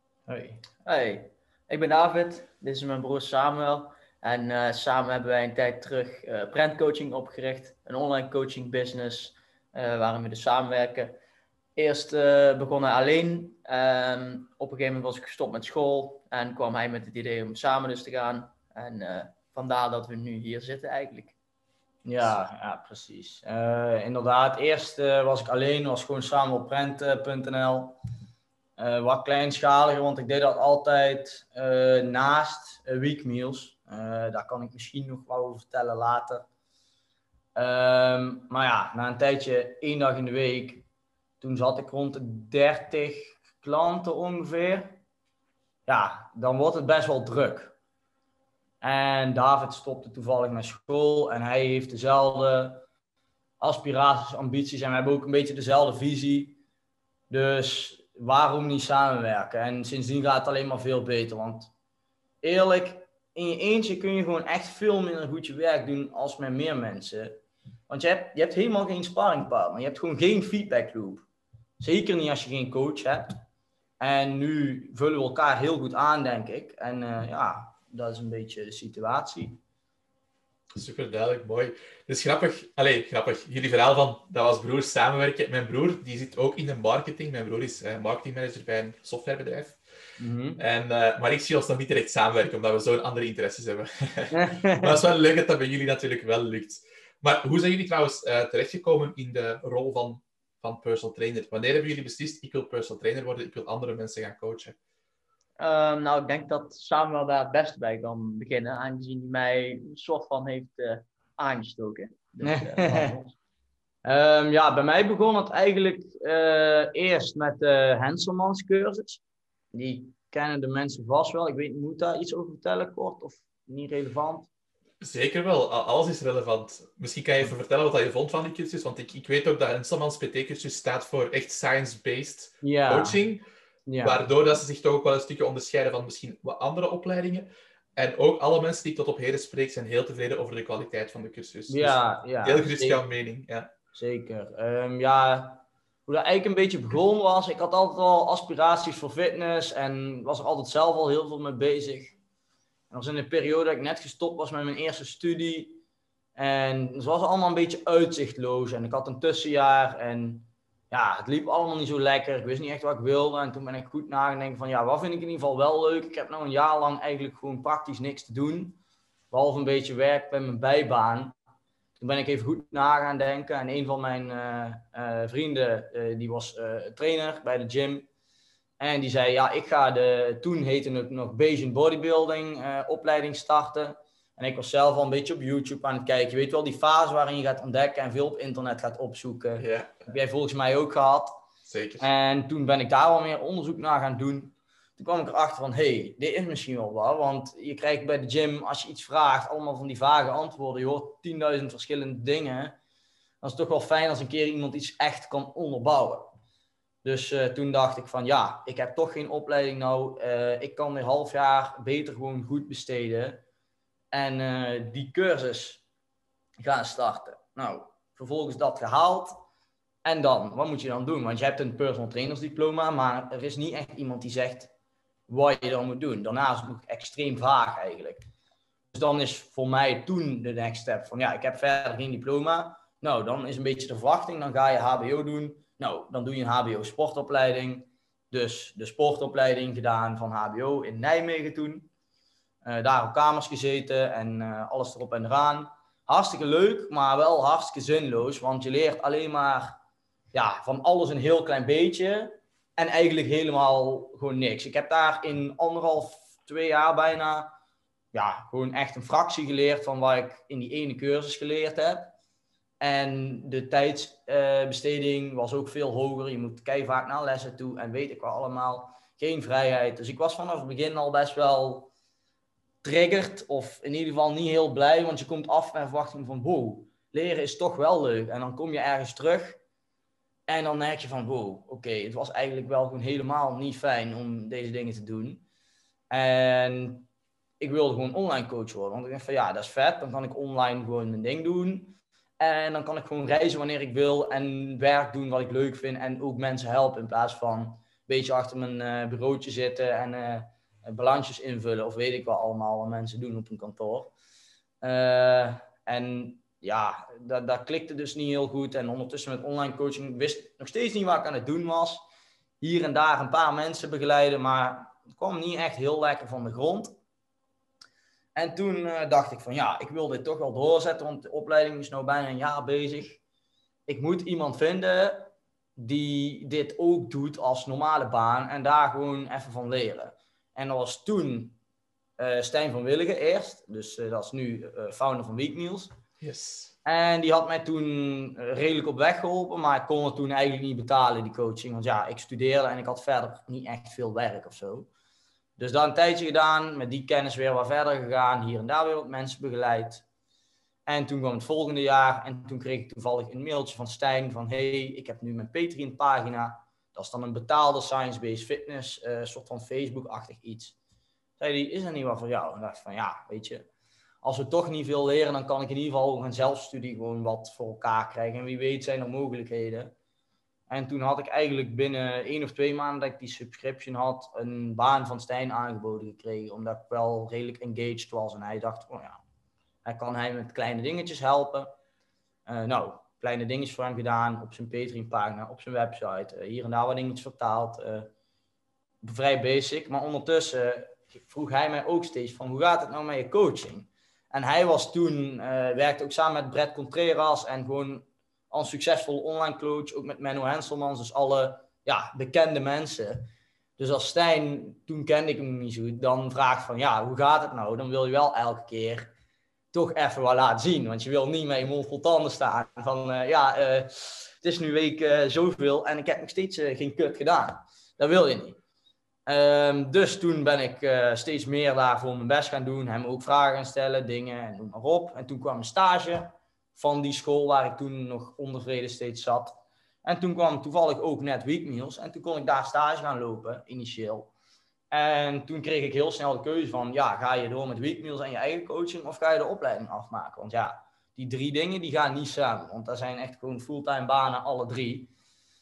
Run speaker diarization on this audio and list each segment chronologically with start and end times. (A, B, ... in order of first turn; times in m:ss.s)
0:00.3-0:00.6 A
0:00.8-0:11.2 B
0:11.8-0:21.4 B
0:22.0-0:28.0 A
0:28.8-0:36.4 A
0:37.6-0:40.9 A
0:41.4-0:45.0 A
0:45.9-0:47.8 A
0:48.8-0:52.9 A
0:53.6-0:56.6 A
0:57.3-1:01.7 A
1:02.4-1:11.2 A
1:11.8-1:13.4 A
1:14.0-1:19.6 A
1:20.8-1:29.8 C
1:30.2-1:30.6 A
1:30.6-1:44.8 C
1:34.3-1:35.0 A
1:45.6-1:53.3 B
1:52.4-1:53.2 A
1:54.0-1:59.2 A
1:59.7-2:04.5 A
2:05.0-2:13.4 C
2:12.6-2:13.2 A
2:13.9-2:14.3 A
2:14.0-2:23.7 C
2:21.7-2:23.0 A
2:24.0-2:32.2 A
2:32.9-2:35.8 A
2:36.4-2:48.8 A
2:49.3-2:51.4 A
2:52.0-2:58.1 A
2:58.8-3:11.4 A
3:09.6-3:10.0 C
3:11.7-3:12.1 C
3:12.0-3:22.8 A
3:23.4-3:26.4 A
3:27.0-3:33.4 A
3:34.1-3:35.8 A
3:36.6-3:39.4 A
3:40.0-3:44.7 A
3:45.3-3:48.3 A
3:48.9-4:01.9 A
4:02.6-4:09.8 A
4:10.3-4:17.6 A
4:18.1-4:22.2 A
4:22.8-4:31.9 A
4:32.8-4:39.6 A
4:40.5-4:45.4 A
4:46.1-4:47.1 A
4:47.6-5:04.1 A
5:04.8-5:12.0 A
5:12.6-5:17.0 A
5:18.4-5:23.2 A
5:23.9-5:31.6 A
5:32.2-5:35.9 A
5:36.2-5:36.8 C
5:36.8-5:44.9 A
5:45.6-5:50.0 A
5:50.9-6:00.8 A
6:01.4-6:03.7 A
6:04.2-6:09.9 A
6:10.7-6:19.2 A
6:19.8-6:21.8 A
6:22.5-6:28.1 A
6:29.0-6:49.1 A
6:49.7-6:58.6 A
6:59.3-7:14.3 A
7:14.9-7:25.1 A